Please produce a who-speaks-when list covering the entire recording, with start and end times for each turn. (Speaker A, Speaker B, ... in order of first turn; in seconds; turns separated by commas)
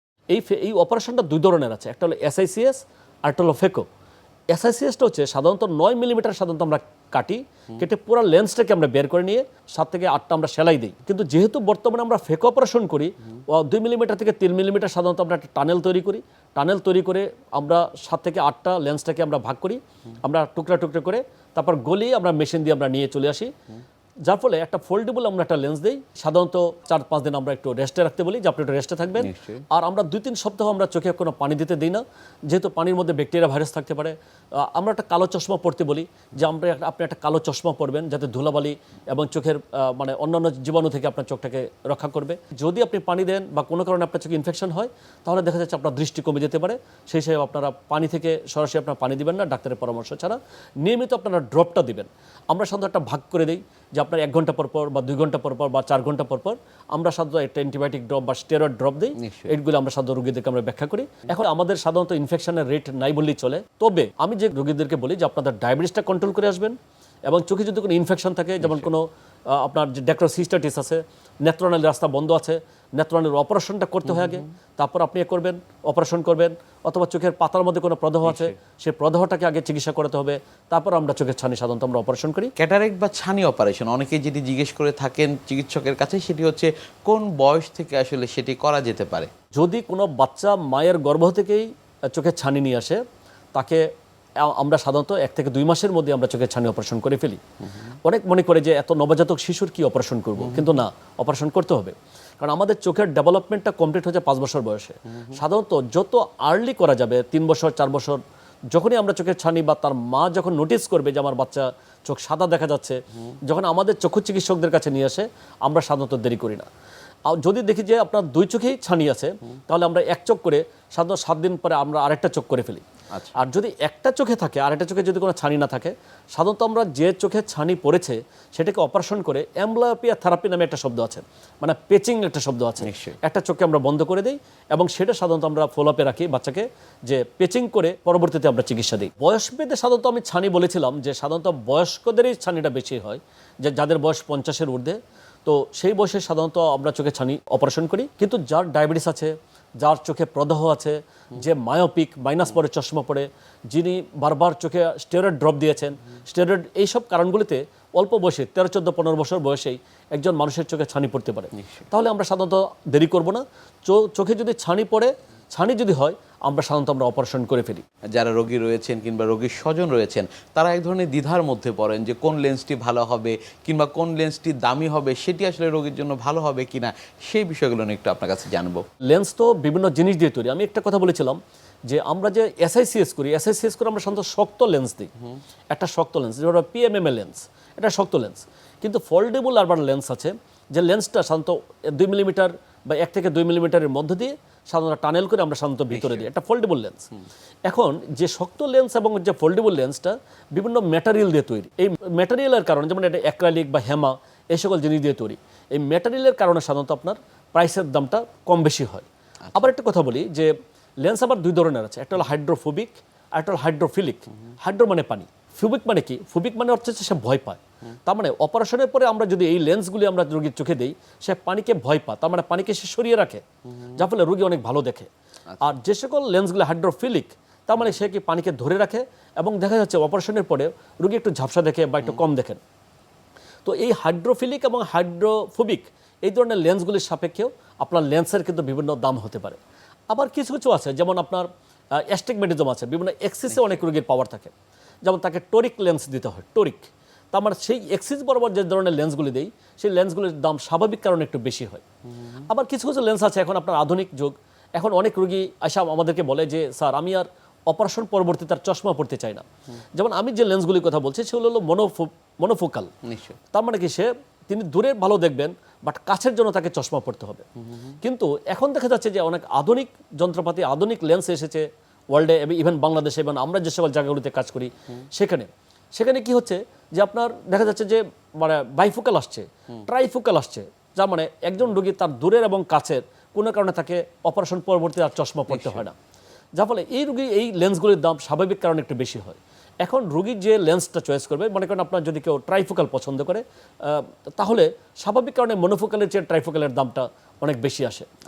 Speaker A: 0.3-3.8, Speaker A: 4.5-23.5, Speaker A: 24.2-66.8, Speaker B: 29.2-29.6, Speaker B: 59.2-59.5, Speaker A: 67.3-82.5, Speaker B: 68.6-68.9, Speaker B: 78.2-78.5, Speaker B: 82.5-89.3, Speaker A: 89.5-93.0, Speaker A: 93.5-93.8, Speaker A: 94.4-97.4, Speaker A: 98.0-108.2, Speaker A: 108.7-116.7, Speaker A: 117.3-122.8, Speaker A: 123.4-167.8, Speaker B: 132.8-133.2, Speaker B: 168.1-178.8, Speaker A: 179.1-185.1, Speaker A: 185.7-197.1, Speaker B: 195.9-196.3, Speaker A: 197.7-210.5, Speaker A: 211.0-223.4, Speaker A: 224.0-225.1, Speaker A: 225.6-232.6, Speaker A: 233.6-239.6, Speaker A: 240.1-244.5, Speaker B: 243.5-243.8, Speaker A: 245.0-251.8, Speaker A: 252.5-259.4, Speaker A: 259.9-262.9, Speaker B: 263.0-263.4, Speaker A: 263.5-267.4, Speaker A: 268.0-285.9, Speaker B: 285.5-285.8, Speaker A: 286.6-298.1